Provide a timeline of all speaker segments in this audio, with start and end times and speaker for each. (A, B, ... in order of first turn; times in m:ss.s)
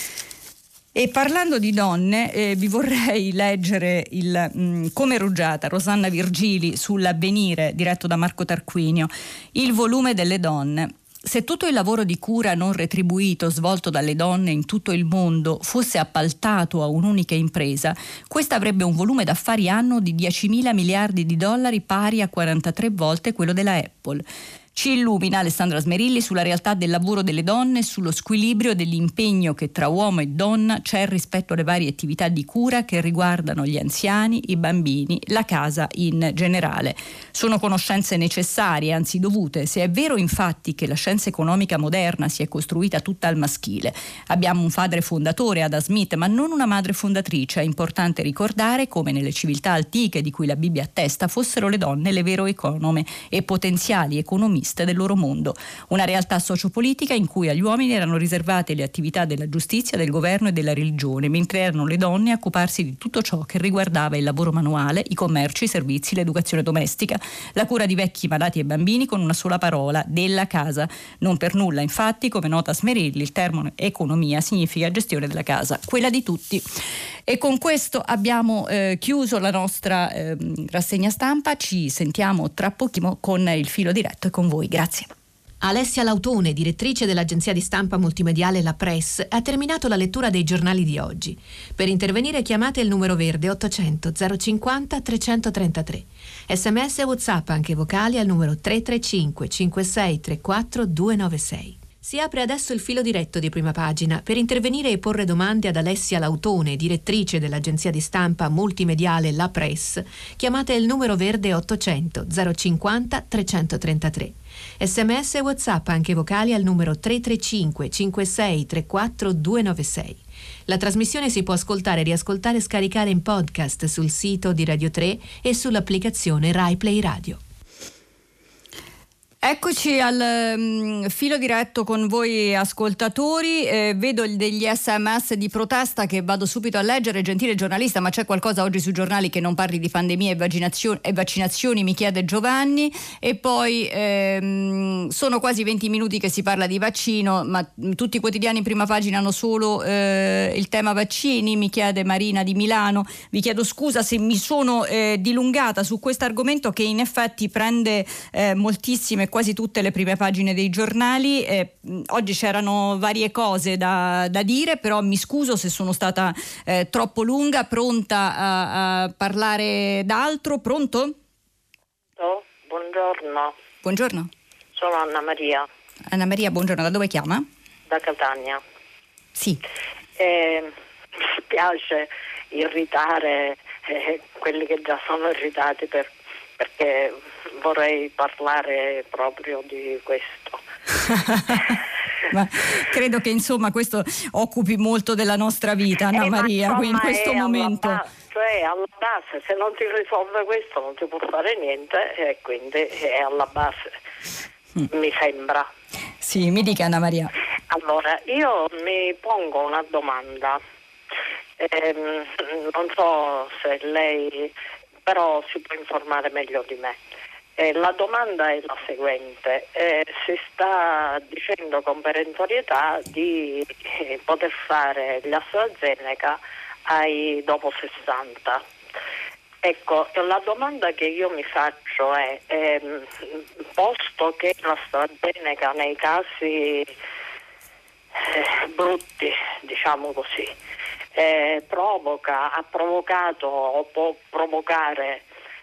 0:00.9-0:24.2 A
0:24.7-1:16.6 A
1:17.3-1:25.1 A
1:25.6-2:07.4 B
2:09.4-2:51.1 A
2:52.2-2:53.6 C
2:53.8-2:54.3 A
2:54.7-2:55.7 C
2:56.1-2:57.4 A
2:57.9-2:58.6 C
2:59.4-2:59.6 A
3:00.2-3:00.7 C
3:01.5-3:10.6 C
3:11.0-3:11.7 A
3:12.3-3:18.0 A
3:16.1-3:23.9 C
3:24.9-3:25.7 C
3:26.2-3:27.3 A
3:27.7-3:30.6 C
3:31.6-3:34.5 C
3:35.0-3:37.0 C
3:37.6-3:48.6 C
3:49.6-3:56.9 C
3:58.2-4:00.5 C
4:01.2-4:05.2 C